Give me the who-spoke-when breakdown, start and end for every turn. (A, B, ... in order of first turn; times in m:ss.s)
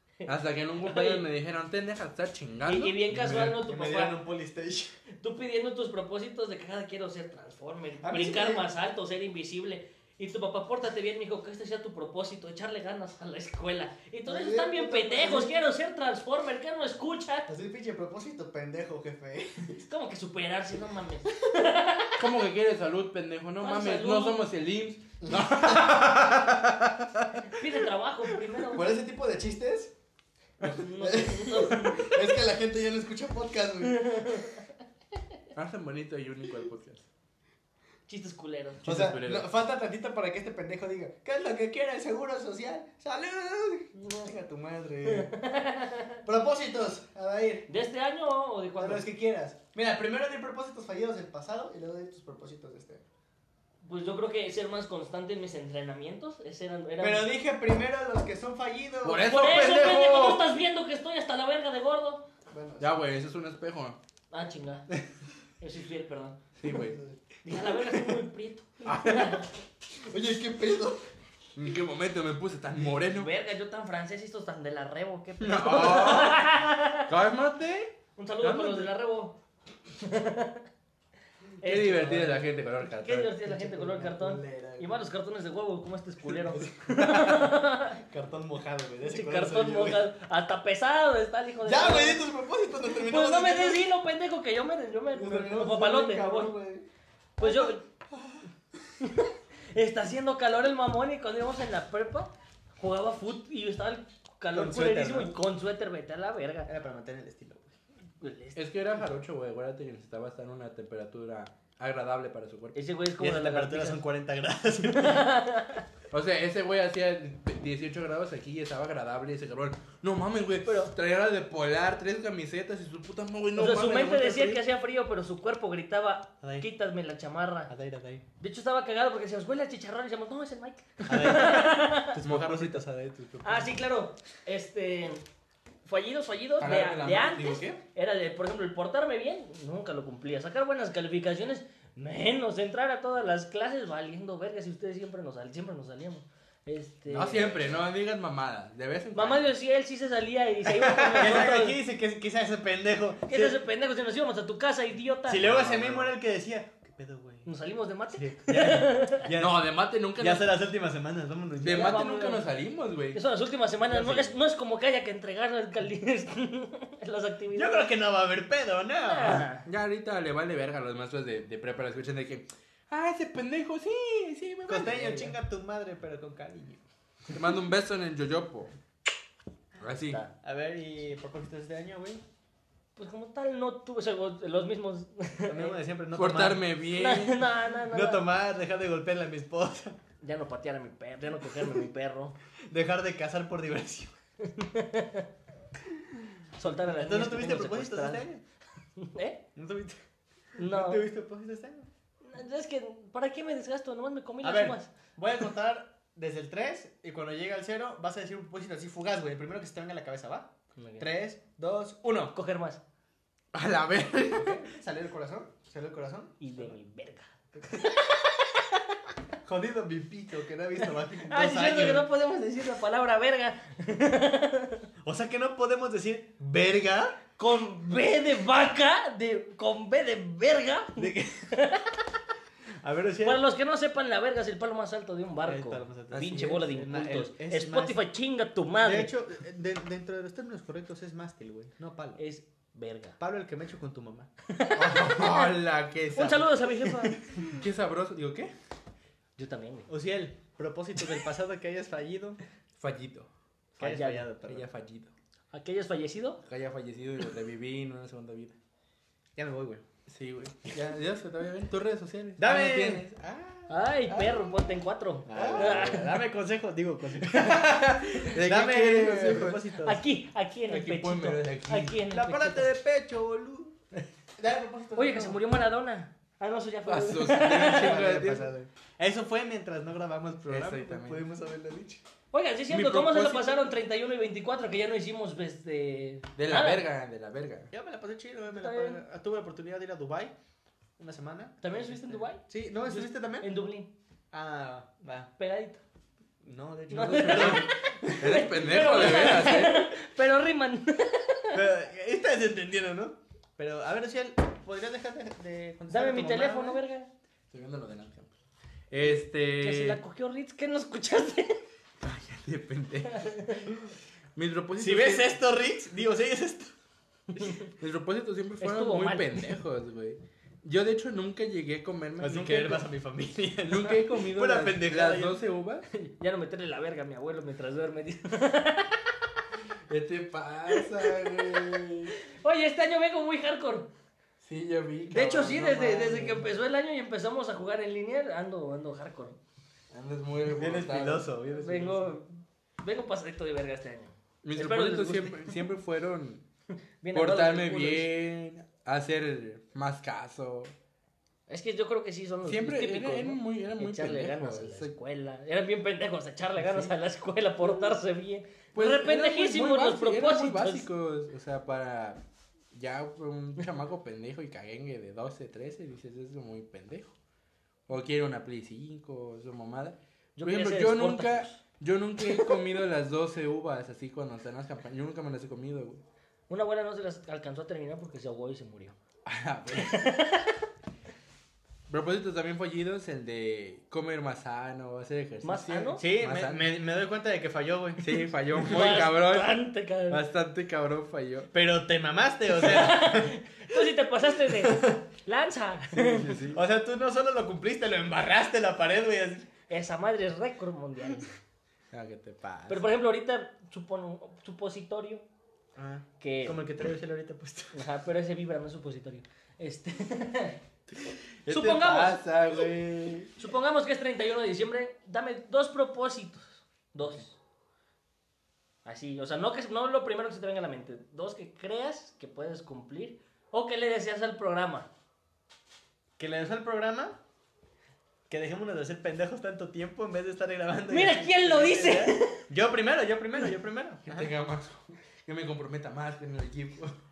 0:00.2-0:01.2 A
0:00.3-0:03.6 B
0:02.7-0:04.2 A
0:03.2-0:04.9 C
0:05.2-0:17.5 A
0:08.0-0:08.6 C
0:14.3-0:15.5 C
0:17.5-0:19.8 C
0:19.8-0:22.2 A
0:22.2-0:27.4 B
0:23.6-0:24.5 A
0:25.2-0:26.1 C
0:27.5-0:29.0 A
0:28.7-0:29.9 C
0:30.6-0:32.2 A
0:30.6-0:34.5 C
0:33.8-0:34.6 A
0:35.5-0:37.1 B
0:38.1-0:38.8 A
0:38.8-0:39.5 B
0:38.8-0:45.3 C
0:44.0-0:44.3 A
0:45.1-0:46.2 A
0:46.2-0:47.7 C
0:47.7-0:49.0 A
0:48.8-0:53.0 C
0:53.8-0:57.3 A
0:57.0-0:59.4 C
0:59.0-1:00.5 B
0:59.2-1:02.2 A
1:02.5-1:03.0 C
1:02.8-1:04.0 B
1:04.3-1:04.9 A
1:05.6-1:06.4 A
1:06.6-1:07.0 B
1:06.7-1:07.2 C
1:07.4-1:09.5 A
1:08.8-1:09.4 B
1:10.0-1:11.0 C
1:11.6-1:13.3 B
1:13.1-1:17.1 A
1:15.4-1:16.5 B
1:17.1-1:18.8 B
1:18.2-1:19.4 A
1:19.9-1:20.6 A
1:21.6-1:28.0 A
1:21.6-1:23.3 B
1:21.7-1:22.4 C
1:23.4-1:25.1 C
1:26.3-1:27.4 C
1:27.0-1:27.3 B
1:27.9-1:30.1 C
1:29.0-1:32.2 A
1:31.6-1:33.9 C
1:33.0-1:36.5 A
1:35.1-1:36.9 C
1:37.4-1:37.8 A
1:37.4-1:38.4 C
1:39.0-1:46.7 A
1:44.5-1:45.4 C
1:46.7-1:47.7 C
1:48.2-1:48.6 A
1:48.6-1:52.8 B
1:52.8-1:54.0 A
1:53.2-1:55.3 C
1:54.8-1:55.8 A
1:56.1-2:04.6 B
2:03.6-2:07.7 A
2:06.4-2:06.7 C
2:07.7-2:08.2 C
2:08.4-2:12.2 A
2:11.1-2:13.8 C
2:12.2-2:12.8 B
2:13.4-2:15.2 A
2:15.9-2:27.6 A
2:16.6-2:17.8 B
2:27.1-2:29.5 B
2:27.3-2:27.5 C
2:29.1-2:31.8 A
2:31.0-2:33.6 C
2:33.3-2:35.4 A
2:35.3-2:37.5 C
2:35.3-2:36.1 B
2:37.4-2:39.3 A
2:38.1-2:42.0 C
2:39.3-2:40.5 B
2:41.6-2:43.2 B
2:41.7-2:42.5 A
2:43.1-2:47.9 A
2:43.9-2:44.3 B
2:47.5-2:49.5 C
2:49.1-2:49.7 A
2:49.3-2:55.3 B
2:54.7-2:56.8 C
2:57.3-2:58.7 B
2:59.8-3:00.2 B
3:00.4-3:02.2 C
3:03.0-3:05.8 A
3:05.4-3:06.7 C
3:06.2-3:07.5 B
3:06.9-3:08.3 A
3:07.9-3:10.0 C
3:10.2-3:12.4 A
3:12.7-3:14.1 C
3:14.4-3:15.3 A
3:16.6-3:18.2 A
3:16.9-3:18.4 C
3:19.0-3:19.4 A
3:19.6-3:20.0 C
3:20.6-3:21.0 A
3:20.6-3:21.9 C
3:22.2-3:24.9 A
3:24.4-3:32.4 C
3:30.8-3:31.1 A
3:32.3-3:32.8 A
3:33.5-3:34.6 B
3:34.3-3:36.7 C
3:36.4-3:37.3 A
3:37.6-3:38.0 C
3:39.4-3:42.1 C
3:41.2-3:44.8 A
3:45.0-3:47.2 C
3:47.4-3:52.0 A
3:51.0-3:51.6 C
3:52.8-3:53.4 C
3:53.2-3:59.1 A
3:55.4-3:58.0 C
3:56.1-3:56.6 B
3:58.8-4:02.2 C
4:02.2-4:03.2 A
4:03.2-4:04.3 C
4:04.5-4:05.5 A
4:04.8-4:06.7 B
4:06.2-4:07.2 A
4:07.2-4:07.6 C
4:07.5-4:08.5 B
4:09.4-4:09.9 A
4:09.9-4:12.4 C
4:12.8-4:13.3 B
4:13.8-4:14.7 C
4:13.8-4:14.3 A
4:14.4-4:15.1 B
4:15.5-4:16.4 A
4:16.4-4:18.6 B
4:19.4-4:19.8 C
4:20.1-4:23.2 B
4:22.4-4:24.4 C
4:23.7-4:26.2 A
4:25.3-4:30.0 C
4:25.3-4:26.1 B
4:27.3-4:29.7 B
4:29.8-4:32.7 A
4:30.7-4:32.0 B
4:32.1-4:33.8 C
4:34.4-4:35.4 C
4:35.0-4:38.0 A
4:36.9-4:38.5 B
4:37.3-4:42.0 C
4:40.5-4:41.2 B
4:42.3-4:46.8 A
4:42.7-4:43.6 B
4:46.4-4:47.7 B
4:47.7-4:50.3 C
4:48.5-4:49.0 A
4:51.0-4:53.5 C
4:51.6-4:53.9 A
4:54.3-4:55.3 C
4:55.4-4:55.8 A
4:56.4-4:59.5 C
4:56.9-5:01.6 A
4:56.9-4:59.9 B
5:01.5-5:06.8 C
5:05.9-5:07.1 A
5:07.5-5:08.3 B
5:08.9-5:10.0 B
5:09.0-5:11.6 A
5:12.0-5:15.4 B
5:13.1-5:13.7 A
5:14.8-5:16.7 C
5:17.4-5:17.7 A
5:17.8-5:22.9 B
5:18.6-5:19.5 A
5:22.2-5:25.4 C
5:23.6-5:25.9 B
5:25.9-5:29.0 A
5:29.9-5:32.1 B
5:30.7-5:31.8 A
5:32.3-5:33.9 A
5:34.4-5:36.5 B
5:35.1-5:39.4 A
5:39.9-5:41.3 B
5:40.5-5:42.2 C
5:41.6-5:45.5 A
5:44.4-5:46.4 B
5:47.0-5:48.1 A
5:47.1-5:50.7 B
5:51.5-6:00.9 A
5:52.4-5:54.9 B
5:56.6-5:57.0 B
5:58.7-6:02.2 B
6:02.7-6:07.1 B
6:07.9-6:16.0 B
6:10.4-6:11.6 A
6:12.3-6:12.6 A
6:16.5-6:19.0 A
6:19.2-6:20.1 B
6:19.7-6:20.6 A
6:21.9-6:26.6 B
6:25.4-6:26.0 A
6:26.0-6:29.0 C
6:28.0-6:29.6 B
6:28.6-6:30.2 A
6:30.1-6:31.5 B
6:31.5-6:33.4 C
6:32.5-6:36.4 A
6:34.4-6:35.0 C
6:35.9-6:36.6 B
6:36.5-6:39.5 C
6:39.7-6:41.3 A
6:41.9-6:42.9 B
6:42.7-6:45.3 A
6:45.8-6:47.9 C
6:46.2-6:46.6 A
6:47.7-6:50.6 A
6:50.9-6:53.3 B
6:51.5-6:52.2 A
6:53.4-6:57.4 A
6:58.8-7:04.9 A
7:06.2-7:07.2 C
7:08.3-7:14.3 C
7:10.9-7:12.4 A
7:14.1-7:17.0 B